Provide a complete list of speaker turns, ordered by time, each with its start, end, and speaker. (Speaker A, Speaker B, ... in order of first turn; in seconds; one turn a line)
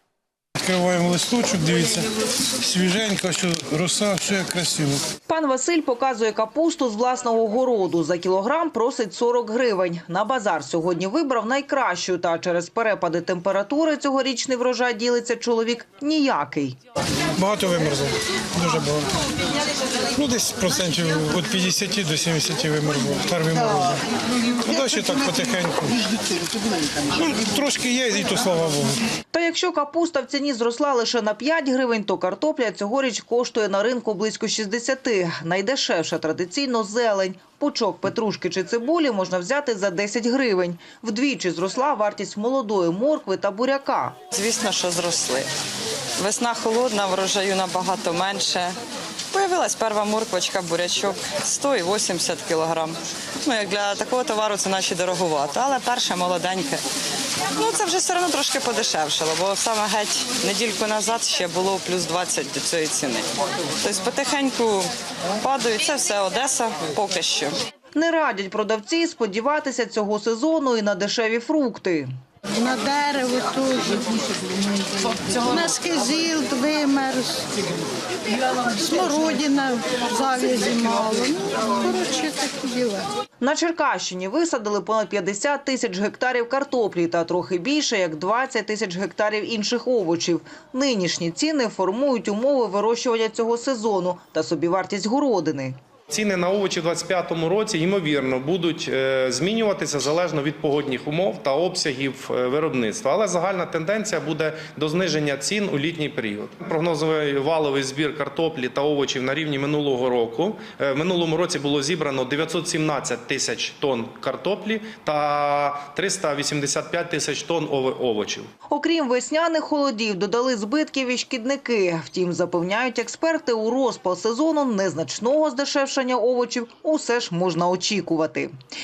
Speaker A: 0.6-5.0
Speaker B: 5.3-16.8
Speaker A: 17.4-19.1
Speaker A: 20.1-24.0
Speaker A: 24.6-26.4
Speaker A: 27.1-29.0
Speaker B: 29.3-44.2
Speaker C: 44.3-45.5
Speaker C: 46.2-48.7
Speaker C: 49.3-56.8
Speaker C: 57.5-63.3
Speaker C: 63.8-64.9
Speaker C: 65.4-67.5
Speaker B: 67.9-72.1
Speaker D: 72.5-77.5
Speaker D: 78.5-83.1
Speaker B: 83.4-95.8
Speaker E: 96.1-118.5
Speaker B: 118.7-128.5